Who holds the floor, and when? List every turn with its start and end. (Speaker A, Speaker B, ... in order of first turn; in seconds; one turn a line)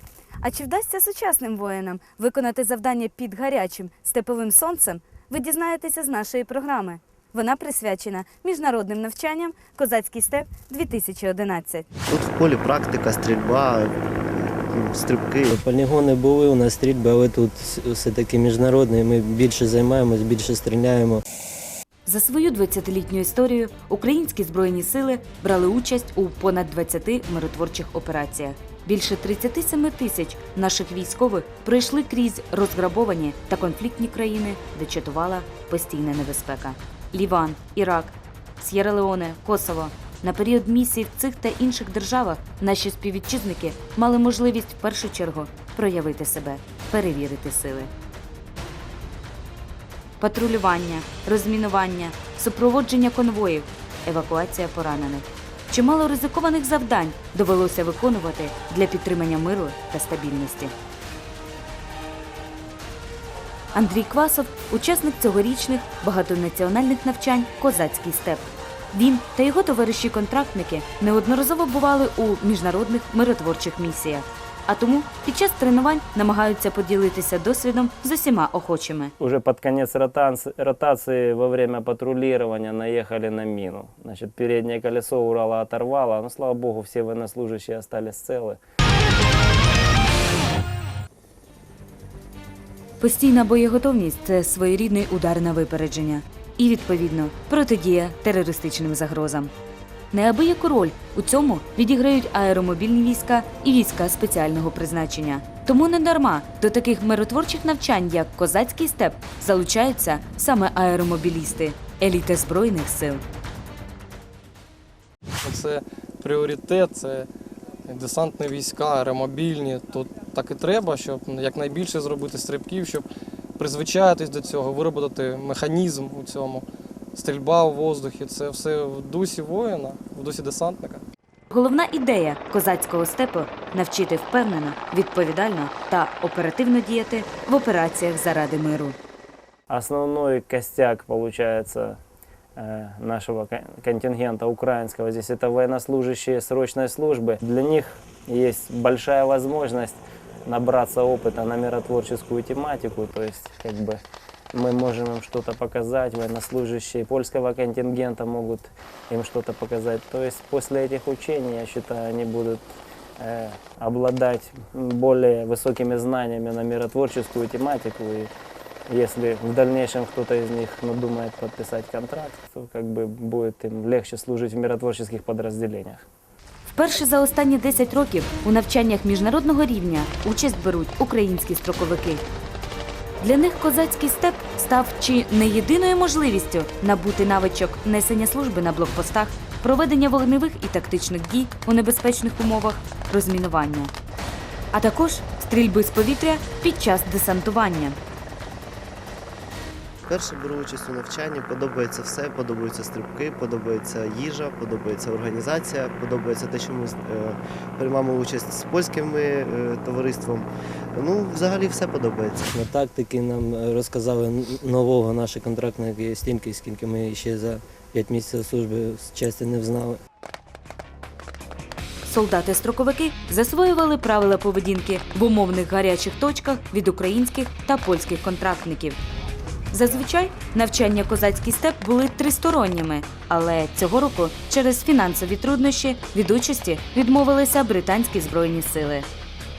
Speaker A: 0.4-11.8
Speaker B: 12.1-15.5
Speaker C: 15.5-21.2
Speaker A: 22.1-47.9
Speaker A: 50.2-60.7
Speaker A: 63.7-79.1
Speaker D: 79.2-88.6
Speaker A: 93.0-99.5
Speaker A: 100.1-113.2
Speaker E: 115.4-117.3
Speaker E: 117.9-123.0
Speaker E: 123.6-131.0
Speaker A: 131.5-139.0
Speaker D: 139.7-142.0
Speaker D: 142.6-154.0
Speaker D: 154.5-168.3
Speaker D: 168.9-176.1
Speaker A: 176.7-182.2
Speaker A: 183.2-193.9
Speaker A: 194.7-198.0
Speaker B: 200.1-212.5
Speaker C: 212.5-220.0
Speaker A: 222.0-229.0
Speaker A: 229.7-239.1